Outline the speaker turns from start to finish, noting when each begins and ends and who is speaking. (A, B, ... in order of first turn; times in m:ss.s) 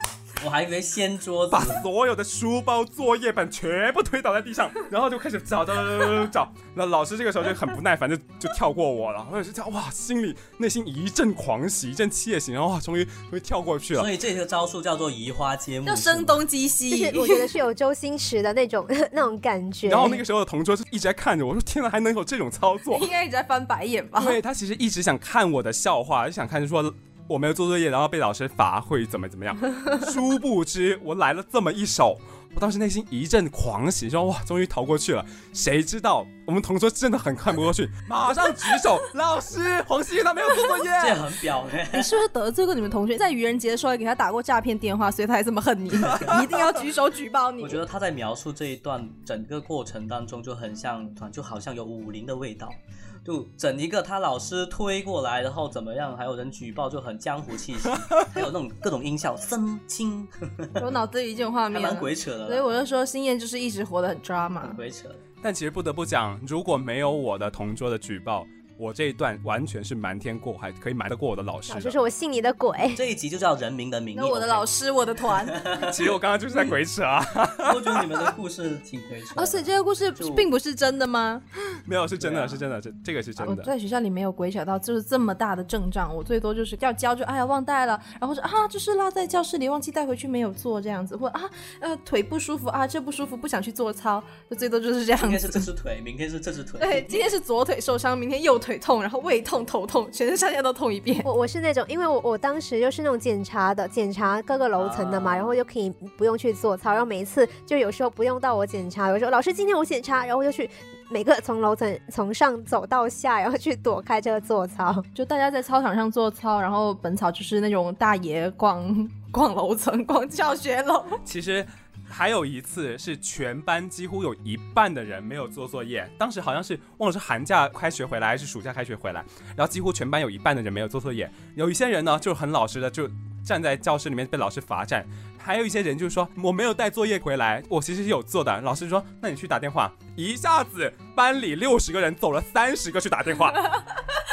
0:00.4-0:01.8 A
0:01.5-0:14.1 B
0:13.9-0:16.4 A
0:15.8-0:17.5 C
0:16.9-0:20.2 D
0:19.8-0:23.1 B
0:22.9-0:24.4 C
0:24.2-0:41.2 B
0:41.0-0:42.2 A
0:41.9-0:47.8 C
0:47.6-1:00.9 A
1:00.8-1:04.8 C
1:01.7-1:02.7 A
1:04.6-1:05.2 A
1:05.4-1:12.0 B
1:11.7-1:13.0 D
1:12.9-1:14.7 A
1:14.1-1:15.7 C
1:15.5-1:16.1 A
1:15.8-1:18.3 B
1:17.6-1:20.5 A
1:19.4-1:21.4 C
1:21.8-1:23.7 B
1:22.2-1:22.6 A
1:23.4-1:35.6 C
1:35.2-1:37.3 A
1:36.8-1:41.3 C
1:41.2-1:55.0 D
1:44.8-1:45.6 A
1:55.1-2:01.2 C
2:01.2-2:23.8 B